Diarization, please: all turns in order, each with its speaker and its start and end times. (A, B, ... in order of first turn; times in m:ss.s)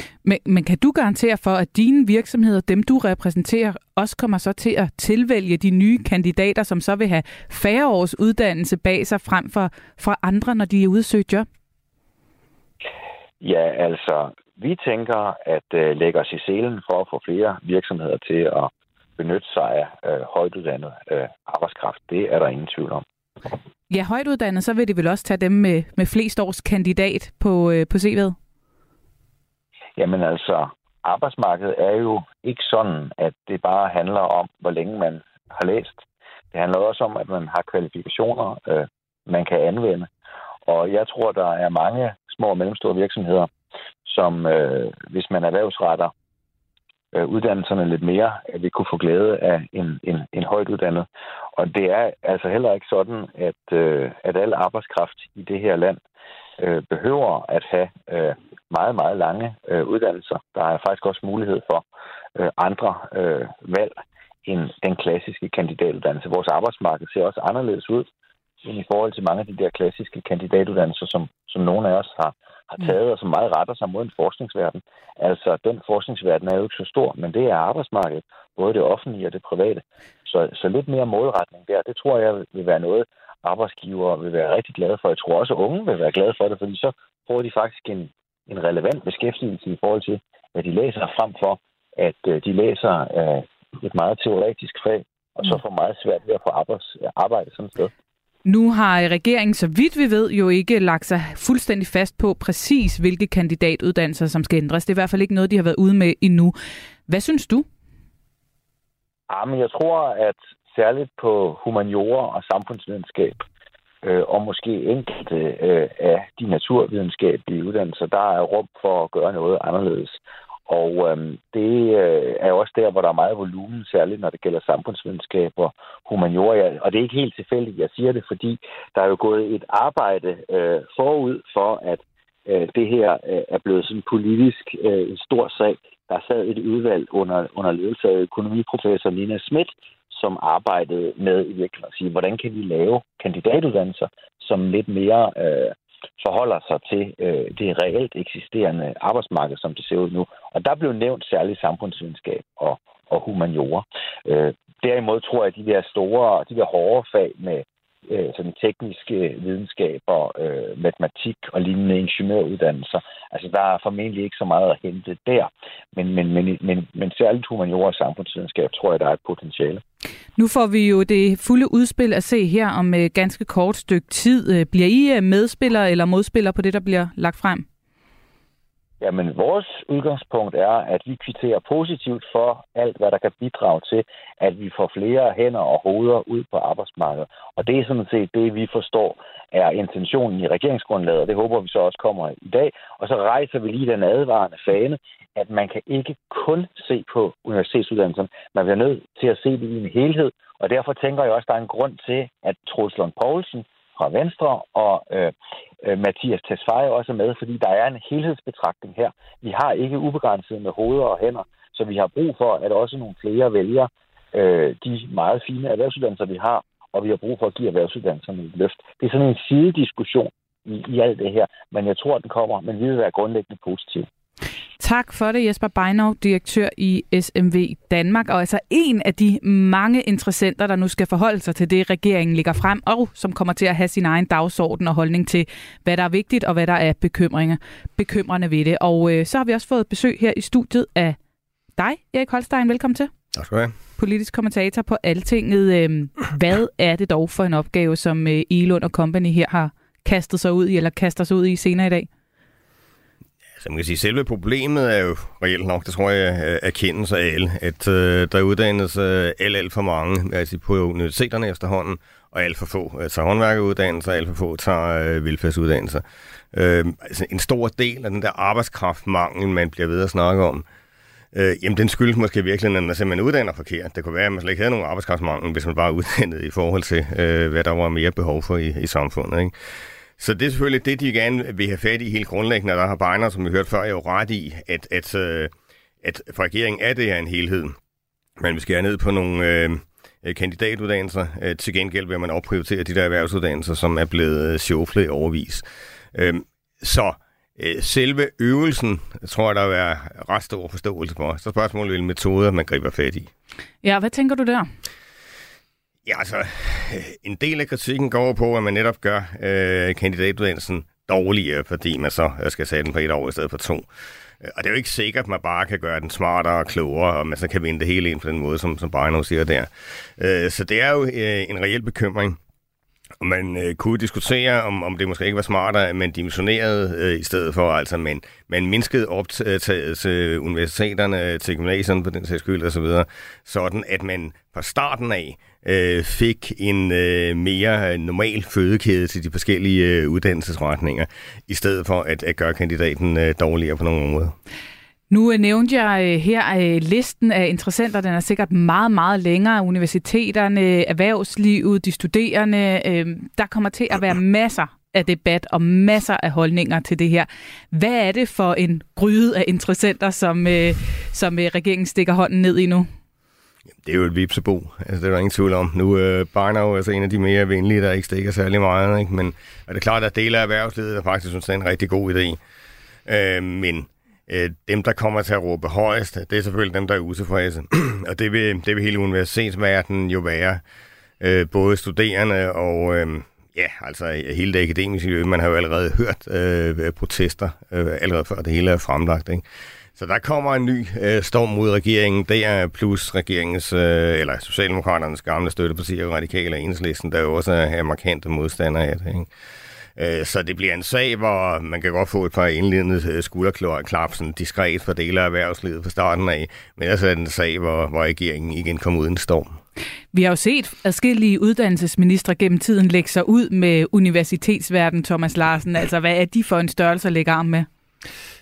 0:00.2-0:11.5 A
0:13.4-0:23.0 B
0:23.9-0:28.4 A
0:30.0-0:40.1 B
0:40.7-0:43.5 B
0:44.1-0:46.1 B
0:47.1-0:56.0 B
0:56.6-1:01.8 B
1:02.4-1:04.0 B
1:04.5-1:08.1 B
1:08.6-1:37.9 B
1:38.5-1:46.6 A
1:47.1-1:47.7 A
1:49.3-1:53.4 B
1:54.0-2:00.2 B
2:00.7-2:49.8 B
2:50.4-2:57.6 A
2:59.0-3:25.3 B
3:25.8-3:44.1 B
3:44.8-4:01.2 A
4:01.8-4:03.1 A
4:03.4-4:03.7 C
4:04.0-4:12.1 A
4:13.6-4:30.6 C
4:31.3-4:39.5 C
4:40.2-4:45.5 C
4:46.0-4:47.8 C
4:48.4-5:03.3 C
5:03.8-5:04.7 A
5:06.1-5:13.9 C
5:14.4-5:22.4 C
5:23.2-5:44.4 C
5:45.1-6:02.9 A
6:03.8-6:12.4 C
6:13.1-6:20.6 C
6:21.2-6:29.4 C
6:30.0-6:39.3 C
6:40.0-6:49.6 C
6:50.1-6:57.7 A